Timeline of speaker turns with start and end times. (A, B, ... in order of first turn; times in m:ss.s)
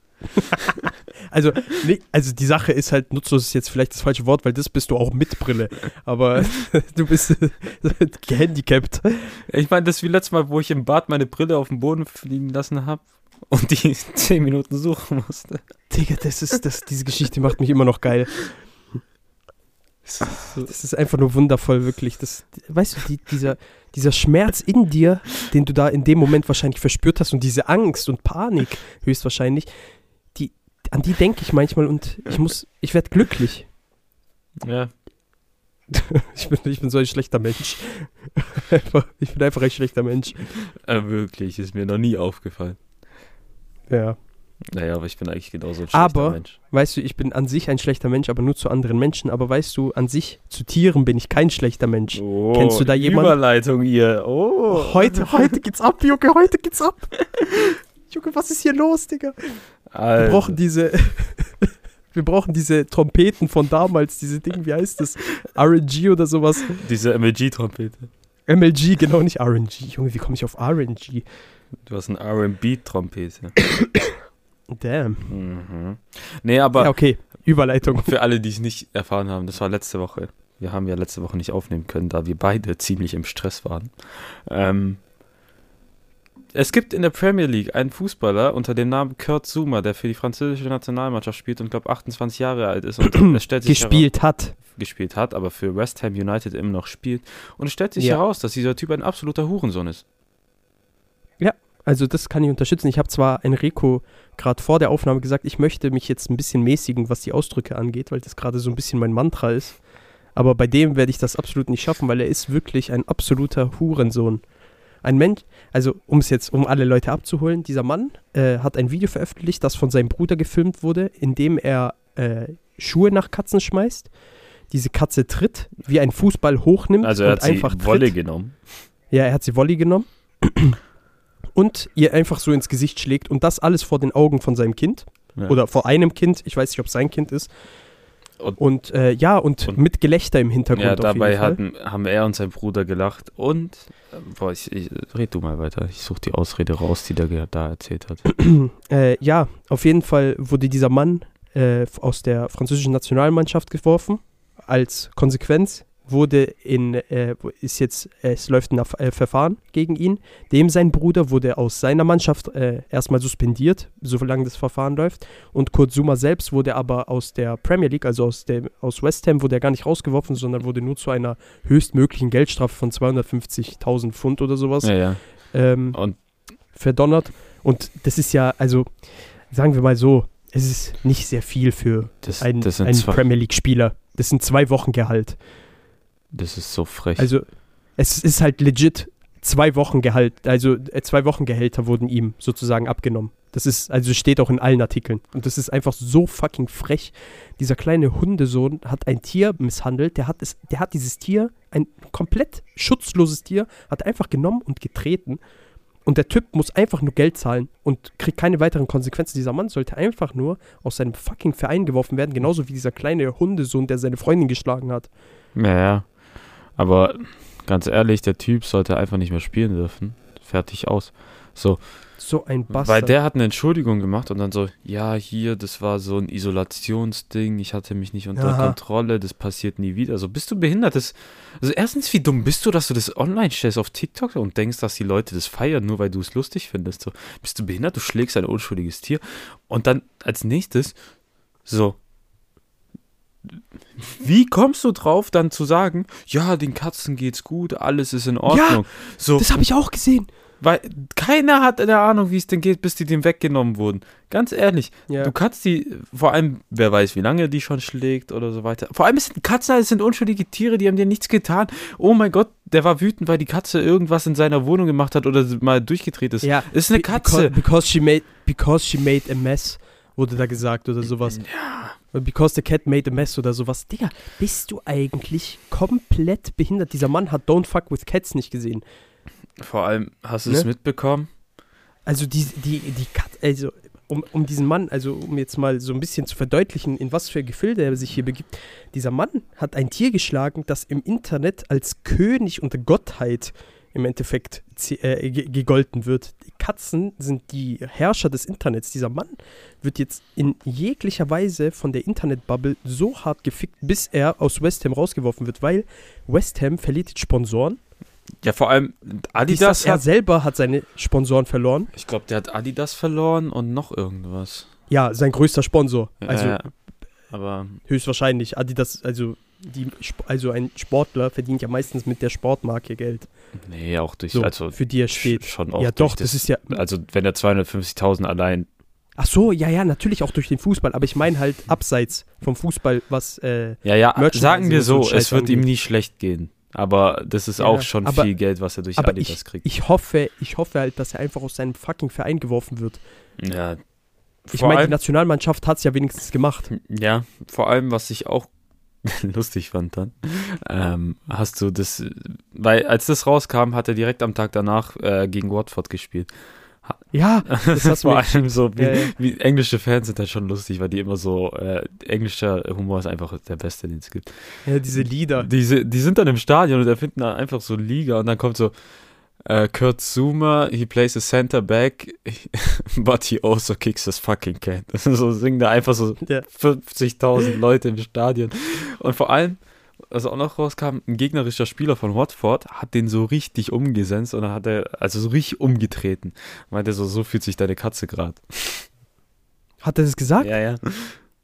0:00.4-0:09.4 A
0:09.5-0:15.6 B
0:15.9-0:18.5 A
0:20.1-0:20.7 B
0:20.3-0:29.7 A
0:30.3-0:33.7 A
0:34.6-0:34.9 B
0:35.9-0:40.4 A
0:40.8-0:42.8 B
0:43.9-0:44.2 A
0:44.7-0:46.6 B
0:45.9-0:53.4 A
0:52.1-0:55.5 B
0:54.7-0:57.1 A
0:58.1-0:59.6 A
0:59.9-1:00.6 B
1:00.2-1:06.8 A
1:06.7-1:08.1 B
1:08.5-1:11.2 A
1:11.8-1:13.6 B
1:14.7-1:15.3 A
1:15.3-1:16.9 B
1:16.8-1:18.1 A
1:17.8-1:25.0 B
1:26.5-1:40.0 B
1:33.0-1:34.6 A
1:41.4-1:49.8 A
1:50.3-1:54.4 A
1:55.0-2:04.1 A
2:04.7-2:08.1 A
2:07.0-2:08.7 B
2:09.1-2:10.8 A
2:11.5-2:17.5 A
2:18.6-2:21.6 A
2:20.7-2:28.2 B
2:28.3-2:55.0 A
2:54.8-2:55.2 B
2:55.5-2:56.0 A
2:56.7-3:05.4 A
3:02.2-3:03.2 B
3:06.3-3:07.3 B
3:07.2-3:07.4 A
3:08.0-3:25.4 A
3:26.0-3:35.1 A
3:35.5-3:36.1 B
3:36.8-3:41.8 B
3:42.2-3:43.1 A
3:42.7-4:01.0 B
3:48.4-3:48.8 A
4:01.6-4:02.0 B
4:04.0-4:09.5 B
4:08.4-4:08.8 A
4:09.4-4:10.3 A
4:10.6-4:27.6 B
4:26.4-4:31.4 A
4:31.3-4:32.0 B
4:32.1-4:38.8 A
4:39.6-4:41.3 B
4:42.0-5:07.8 A
5:08.4-5:10.0 B
5:09.5-5:11.9 A
5:11.9-5:14.7 B
5:14.9-5:16.6 A
5:16.2-5:16.7 B
5:17.3-5:17.8 B
5:17.9-5:23.3 A
5:23.6-5:28.7 B
5:24.3-5:26.8 A
5:29.2-5:35.6 A
5:33.8-5:39.6 B
5:37.6-5:38.3 A
5:39.0-5:43.0 A
5:43.4-5:43.8 B
5:44.5-5:45.0 B
5:44.5-5:46.7 A
5:46.7-5:48.5 B
5:49.0-5:56.3 B
5:56.8-6:04.5 B
5:57.1-5:59.1 A
6:04.6-6:05.5 A
6:05.4-6:08.7 B
6:09.4-6:28.9 B
6:29.8-6:30.5 A
6:30.4-6:31.2 B